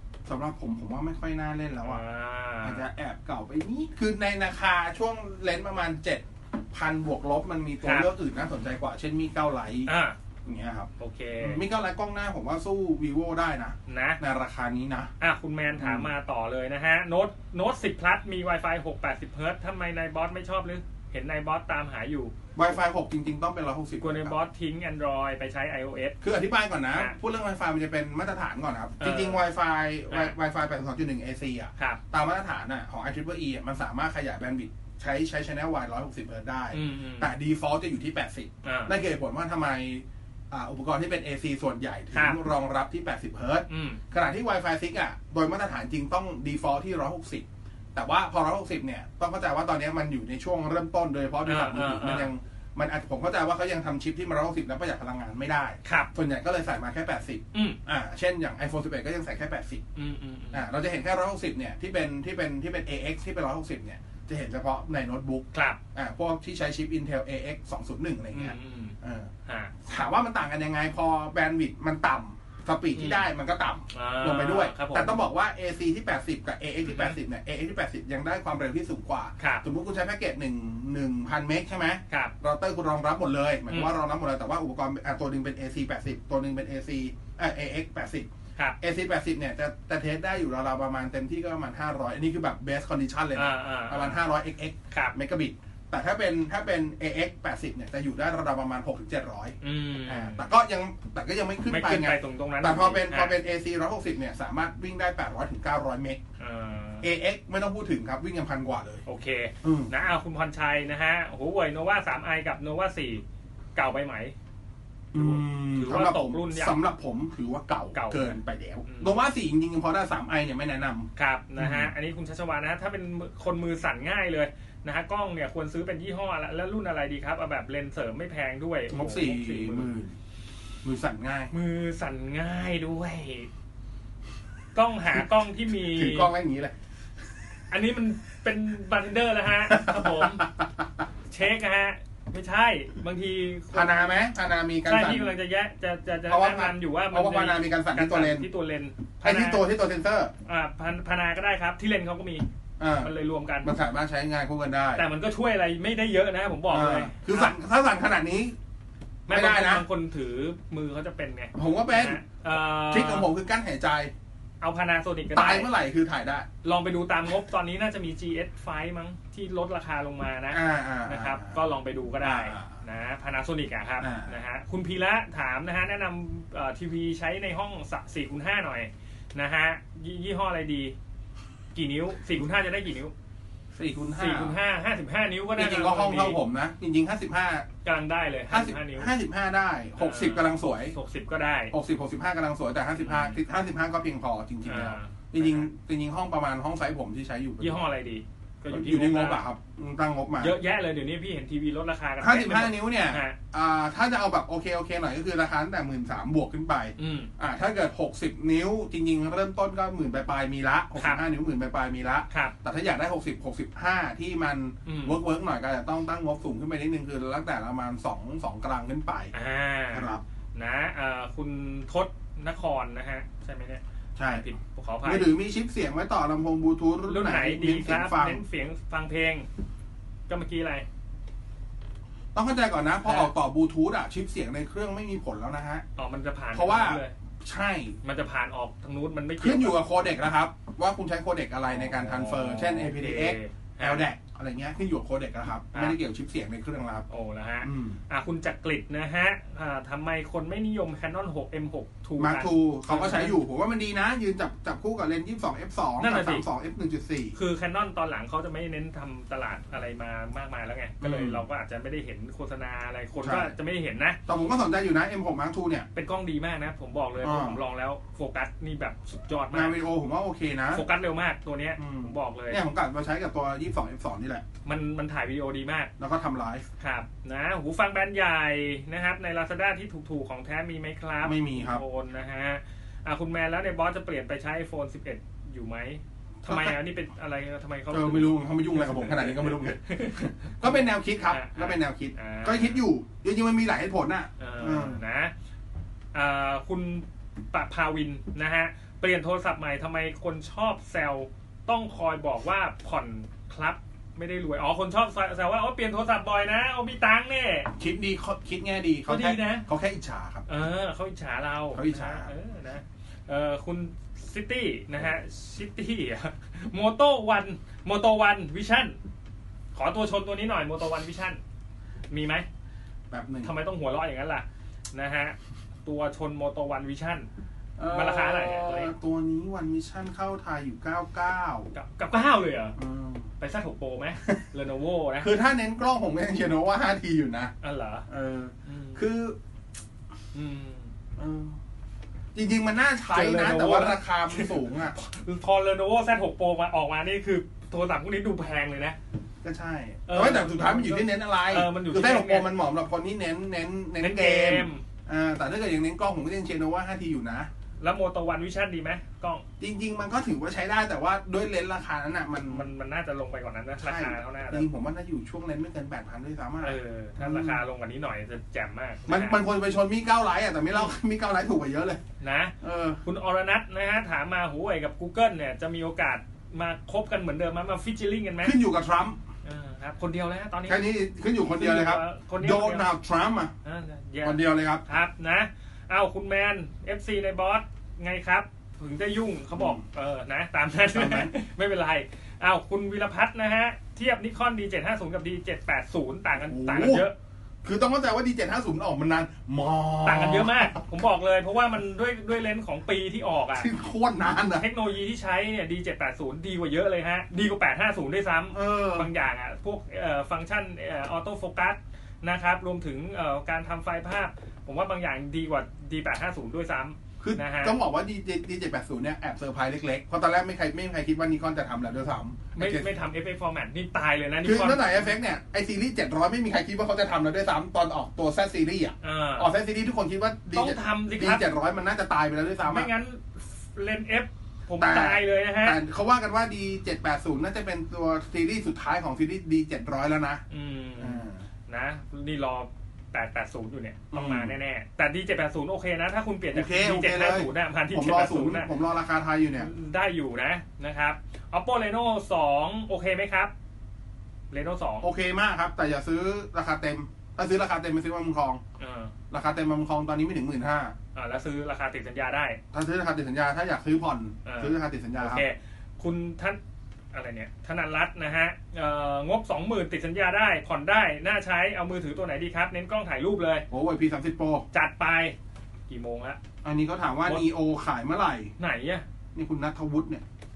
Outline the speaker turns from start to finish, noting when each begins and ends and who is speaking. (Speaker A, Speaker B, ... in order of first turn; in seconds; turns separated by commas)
Speaker A: 0.3-2.0, Speaker B: 1.8-2.9, Speaker A: 2.6-9.9, Speaker B: 7.8-8.1, Speaker B: 9.9-10.2, Speaker A: 10.4-10.9, Speaker B: 11.0-11.6, Speaker A: 11.4-15.1, Speaker B: 13.9-14.2, Speaker B: 15.2-22.4, Speaker A: 15.8-16.1, Speaker A: 22.6-24.4, Speaker B: 24.0-26.2, Speaker A: 26.2-59.8, Speaker B: 29.0-29.4, Speaker B: 30.1-30.3, Speaker B: 36.7-37.3, Speaker B: 38.6-39.0, Speaker B: 42.1-42.4, Speaker B: 43.7-44.0, Speaker B: 51.5-52.3, Speaker B: 55.8-56.1, Speaker B: 60.0-60.6, Speaker A: 60.5-69.3, Speaker B: 65.5-65.8, Speaker B: 68.3-69.7, Speaker A: 69.8-88.3, Speaker B: 73.0-73.2, Speaker B: 73.9-75.2, Speaker B: 76.8-77.2, Speaker B: 79.4-79.6, Speaker A: 88.8-106.2, Speaker B: 93.3-94.2, Speaker B: 94.9-95.2, Speaker B: 99.6-100.5, Speaker B: 101.7-103.4, Speaker B: 106.4-107.0, Speaker A: 107.0-109.0, Speaker B: 109.1-113.2, Speaker A: 109.6-109.9, Speaker B: 113.8-114.3, Speaker A: 115.1-121.9, Speaker B: 115.1-116.8, Speaker B: 117.9-118.3, Speaker B: 118.9-119.2, Speaker B: 121.2-129.9, Speaker A: 128.9-130.2, Speaker A: 130.8-131.5, Speaker B: 131.5-133.5, Speaker B: 134.7-136.3, Speaker A: 135.8-136.7, Speaker B: 137.7-140.5, Speaker A: 139.7-140.9, Speaker B: 141.3-144.1, Speaker A: 143.7-145.3, Speaker B: 144.9-149.6, Speaker A: 146.3-148.5, Speaker A: 149.2-150.3, Speaker B: 150.5-152.4, Speaker A: 152.8-155.1, Speaker B: 153.0-153.7, Speaker B: 155.0-157.5, Speaker A: 156.7-158.6, Speaker B: 159.3-163.3, Speaker A: 159.3-159.8, Speaker A: 161.6-162.2, Speaker A: 162.9-164.1, Speaker B: 164.6-165.7, Speaker A: 165.3-166.5, Speaker B: 166.6-180.9, Speaker A: 170.5-171.6, Speaker A: 172.2-172.8, Speaker A: 174.0-174.3, Speaker B: 181.7-183.1, Speaker A: 183.7-184.6, Speaker B: 184.1-186.4, Speaker A: 185.6-187.7, Speaker B: 187.8-189.1, Speaker A: 188.5-190.9, Speaker B: 190.0-191.7, Speaker A: 191.7-197.8, Speaker B: 193.0-193.4, Speaker B: 194.7-195.7, Speaker B: 197.6-199.4, Speaker A: 198.7-200.6, Speaker B: 200.4-203.4, Speaker A: 202.2-219.3, Speaker B: 207.0-207.3, Speaker B: 212.3-212.6, Speaker B: 214.8-215.2, Speaker B: 219.3-225.3, Speaker A: 219.9-220.2, Speaker A: 224.2-224.4, Speaker A: 225.0-228.4, Speaker B: 227.1-229.5, Speaker B: 230.3-230.9, Speaker A: 232.3-235.8, Speaker B: 233.0-233.3, Speaker B: 236.0-237.1, Speaker A: 236.5-238.0, Speaker B: 238.0-239.8, Speaker A: 239.4-247.1, Speaker B: 241.7-244.1, Speaker B: 245.7-246.0, Speaker B: 247.1-253.4, Speaker A: 247.6-248.0, Speaker A: 252.2-257.4, Speaker B: 256.0-256.4, Speaker B: 257.4-264.2, Speaker A: 261.0-261.4, Speaker A: 263.2-263.5, Speaker A: 264.3-265.9, Speaker B: 265.9-269.8, Speaker A: 267.2-267.6, Speaker A: 269.5-270.9, Speaker B: 270.7-272.6, Speaker A: 271.8-274.4, Speaker B: 274.6-275.9, Speaker A: 276.0-276.7, Speaker B: 276.8-292.8, Speaker A: 281.2-281.8, Speaker A: 286.4-286.8, Speaker A: 287.9-295.0, Speaker B: 294.4-295.3, Speaker B: 296.1-307.7, Speaker A: 307.7-310.5, Speaker B: 309.1-309.7, Speaker B: 310.5-319.0, Speaker A: 311.7-312.3, Speaker B: 319.8-321.4, Speaker B: 322.1-322.5, Speaker A: 323.1-323.5, Speaker B: 323.4-327.3, Speaker A: 327.8-331.7, Speaker B: 327.9-328.9, Speaker B: 331.7-332.8, Speaker A: 332.8-333.3, Speaker B: 333.4-335.3, Speaker A: 335.2-337.5, Speaker B: 337.6-338.1, Speaker A: 338.1-339.4, Speaker B: 338.7-339.0, Speaker B: 340.3-340.9, Speaker A: 341.2-341.6, Speaker A: 342.3-345.0, Speaker B: 343.1-349.0, Speaker A: 349.4-357.5, Speaker B: 350.1-352.5, Speaker B: 354.0-354.8, Speaker B: 357.8-359.5, Speaker A: 359.6-362.7, Speaker B: 362.5-364.6, Speaker A: 363.8-367.6, Speaker B: 366.6-369.4, Speaker A: 369.1-372.0, Speaker B: 372.2-378.6, Speaker A: 372.6-373.0, Speaker A: 378.4-379.2, Speaker B: 379.4-380.9, Speaker A: 380.7-383.5, Speaker B: 381.4-382.9, Speaker B: 383.6-397.2, Speaker A: 384.2-384.8, Speaker A: 390.9-391.3, Speaker A: 396.4-397.1, Speaker A: 397.6-400.8, Speaker B: 400.1-403.7, Speaker A: 403.6-404.7, Speaker B: 404.5-417.8, Speaker A: 408.5-409.1, Speaker A: 417.2-422.9, Speaker B: 422.6-425.1, Speaker A: 424.4-432.9, Speaker B: 429.0-429.5, Speaker B: 430.5-431.4, Speaker B: 432.7-435.8, Speaker A: 434.8-440.4, Speaker B: 440.5-448.7, Speaker A: 441.0-441.4, Speaker A: 444.1-444.5, Speaker A: 446.5-449.7, Speaker B: 449.6-453.5, Speaker B: 454.5-455.1, Speaker A: 455.0-458.6, Speaker B: 458.8-459.1, Speaker A: 459.3-460.9, Speaker B: 461.1-462.6, Speaker A: 462.7-465.4, Speaker B: 464.4-466.6, Speaker B: 467.1-473.7, Speaker A: 473.7-474.6, Speaker B: 474.7-475.4, Speaker B: 475.9-476.4, Speaker A: 476.6-478.5, Speaker B: 478.6-479.1, Speaker A: 479.4-480.2